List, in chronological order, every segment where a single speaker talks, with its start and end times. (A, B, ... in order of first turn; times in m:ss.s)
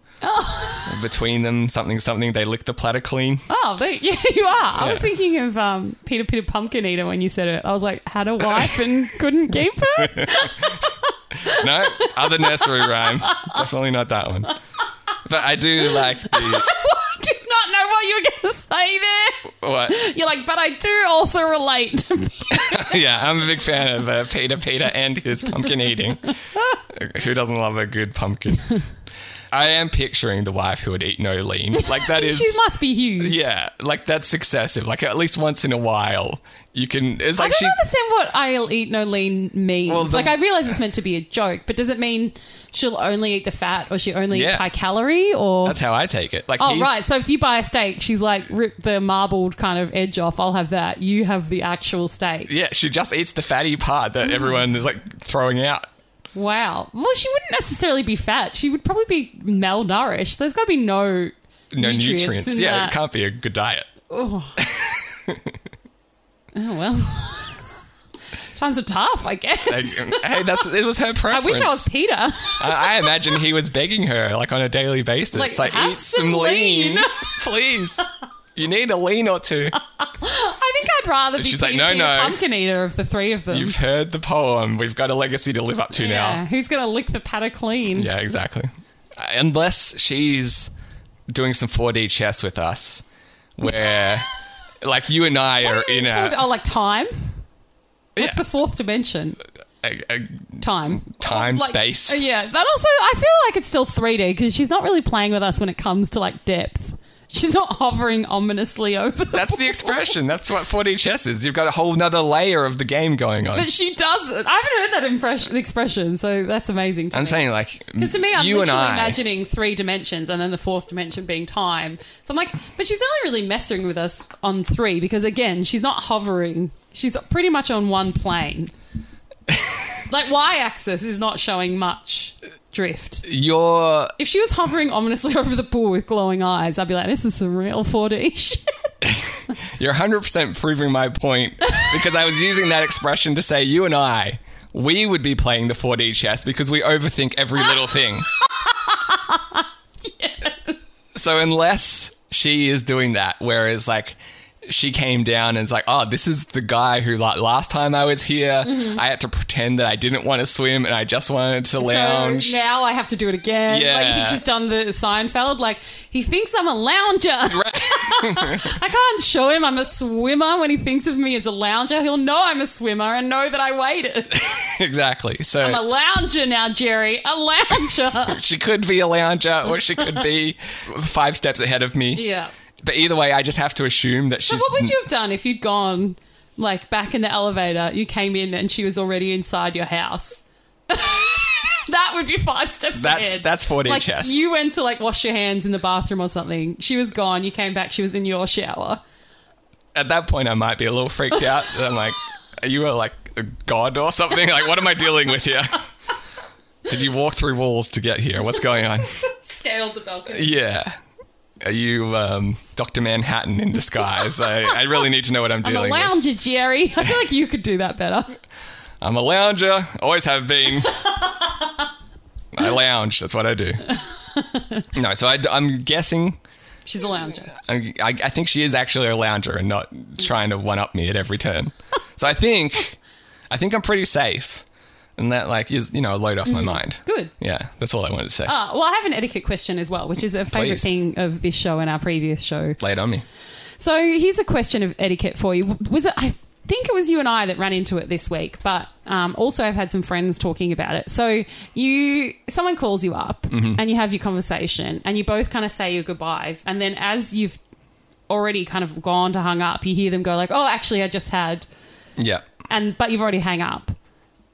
0:00.2-0:01.0 A
0:00.8-0:03.4 B
0:03.5-0:13.6 A
0:04.8-0:05.1 B
0:10.0-0:10.8 B
0:11.4-0:14.5 B
0:15.2-0:16.7 B
0:15.8-0:22.9 A
0:19.6-0:20.0 B
0:22.5-0:26.3 B
0:26.9-0:28.8 B
0:29.5-0:32.6 B
0:31.7-0:33.4 A
0:33.2-0:37.8 B
0:37.4-0:45.8 A
0:39.9-0:40.4 B
0:44.3-0:44.6 B
0:45.6-0:46.9 B
0:46.6-0:52.5 A
0:52.5-0:55.9 B
0:56.3-1:03.0 A
1:01.7-1:03.9 B
1:04.1-1:04.6 A
1:04.6-1:05.6 B
1:06.5-1:07.8 A
1:08.5-1:10.6 A
1:09.7-1:11.8 B
1:11.3-1:13.2 A
1:12.6-1:18.0 B
1:15.3-1:17.4 A
1:18.6-1:19.8 B
1:20.0-1:23.8 A
1:21.4-1:22.4 B
1:23.5-1:26.4 B
1:25.9-1:28.1 A
1:28.0-1:30.7 B
1:31.3-1:33.0 B
1:33.6-1:34.3 B
1:34.8-1:36.4 B
1:35.6-1:37.3 A
1:38.2-1:38.4 B
1:38.2-1:39.4 A
1:39.8-1:42.2 B
1:40.6-1:50.1 A
1:49.3-1:53.7 B
1:53.5-1:57.4 A
1:57.1-1:59.2 B
1:58.0-2:08.7 A
2:10.1-2:13.2 A
2:13.2-2:14.1 B
2:14.2-2:18.7 A
2:19.0-2:28.3 B
2:28.6-2:30.8 A
2:31.1-2:42.5 B
2:38.6-2:39.0 A
2:41.8-2:54.5 A
2:43.7-2:44.4 B
2:47.5-2:48.7 B
2:54.3-2:55.8 B
2:55.6-2:58.4 A
2:58.3-3:02.2 B
3:02.1-3:02.5 A
3:02.8-3:04.9 B
3:04.5-3:19.0 A
3:13.0-3:14.4 B
3:19.9-3:25.8 B
3:26.8-3:29.1 B
3:29.2-3:30.5 A
3:30.3-3:30.9 B
3:31.6-3:36.2 B
3:35.6-3:38.4 A
3:39.0-3:41.0 B
3:42.5-3:43.9 B
3:44.4-3:44.8 A
3:44.9-3:46.4 B
3:46.8-3:47.5 A
3:47.5-3:53.0 B
3:53.5-3:54.6 B
3:55.2-3:58.5 B
3:56.4-3:57.3 A
3:58.4-4:02.8 A
4:00.5-4:00.9 B
4:02.8-4:03.2 B
4:03.8-4:17.6 A
4:13.5-4:13.8 B
4:18.3-4:21.6 A
4:22.2-4:22.4 B
4:22.7-4:23.9 A